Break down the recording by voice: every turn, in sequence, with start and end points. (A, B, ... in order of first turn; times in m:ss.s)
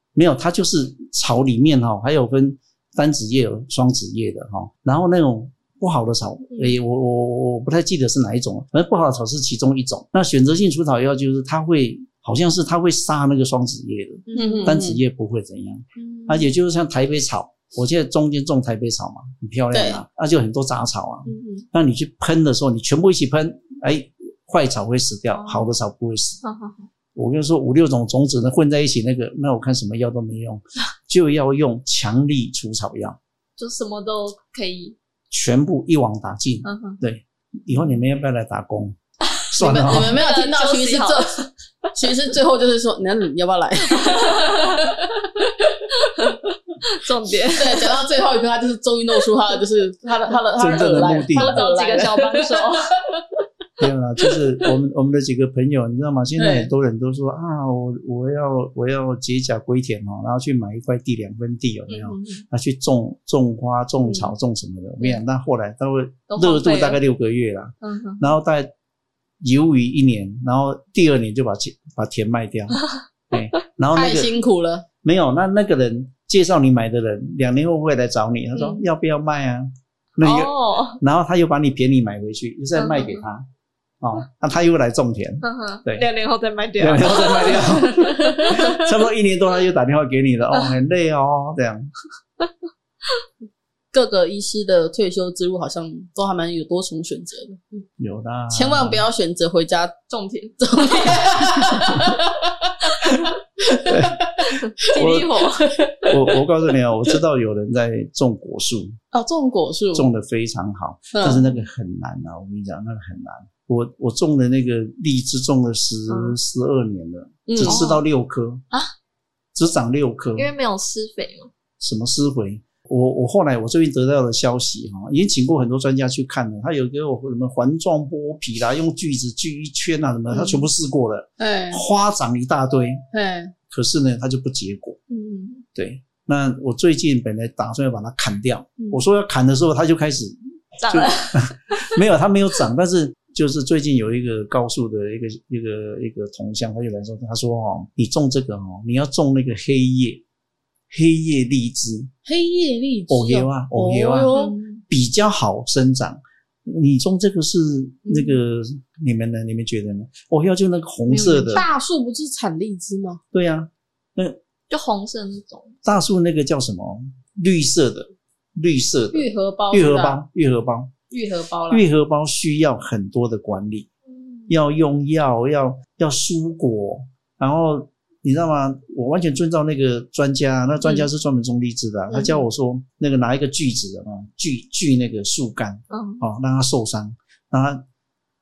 0:00.1-0:26.4 A
0:14.3-0:14.8 B
0:14.3-0:15.0 C
0:16.0-0:16.5 B
0:19.7-0:20.0 C
0:21.2-0:21.7 B
0:25.3-0:25.7 B
0:26.4-0:26.9 B
0:27.1-0:33.2 A
0:33.6-0:35.0 B
0:35.3-0:39.0 A
0:36.6-0:37.0 B
0:39.3-0:41.5 B
0:39.5-0:40.2 A
0:39.6-0:41.4 C
0:41.9-0:45.2 C
0:43.9-0:45.0 B
0:45.9-0:48.0 B
0:47.5-0:53.2 C
0:50.6-0:51.6 A
0:51.3-0:52.9 B
0:53.8-1:08.7 A
0:56.4-0:56.7 C
1:01.9-1:02.4 B
1:06.3-1:07.0 B
1:07.8-1:08.3 B
1:09.4-1:14.3 A
1:13.9-1:14.8 C
1:15.0-1:23.4 A
1:18.5-1:18.8 B
1:20.2-1:21.0 B
1:22.8-1:23.2 B
1:24.0-1:26.0 A
1:25.4-1:28.8 B
1:26.8-1:31.9 A
1:33.9-1:37.8 C
1:38.0-1:39.0 A
1:38.5-1:45.0 C
1:40.1-1:41.2 B
1:41.7-1:42.1 A
1:43.8-1:45.3 A
1:44.8-1:45.8 B
1:45.6-1:46.1 C
1:46.1-1:49.0 A
1:49.1-1:50.1 C
1:49.9-1:58.6 A
1:51.1-1:51.4 C
1:56.1-1:56.4 B
1:57.5-1:57.9 C
1:57.6-1:58.0 B
1:59.5-2:00.5 A
2:00.4-2:01.5 B
2:01.8-2:13.0 A
2:11.4-2:11.8 C
2:13.1-2:13.5 C
2:13.7-2:15.0 A
2:15.1-2:15.6 B
2:15.7-2:30.2 A
2:20.8-2:22.0 B
2:30.9-2:32.1 A
2:32.2-2:34.6 C
2:33.1-2:34.3 A
2:34.3-2:34.8 B
2:34.9-2:41.6 A
2:41.1-2:41.6 B
2:41.4-2:43.2 C
2:43.3-2:44.4 A
2:44.7-2:45.8 B
2:45.8-2:50.9 A
2:49.1-2:50.2 C
2:51.1-2:51.8 C
2:51.7-2:53.9 A
2:54.1-2:54.5 B
2:54.5-3:07.8 A
3:02.1-3:02.4 B
3:05.9-3:06.2 B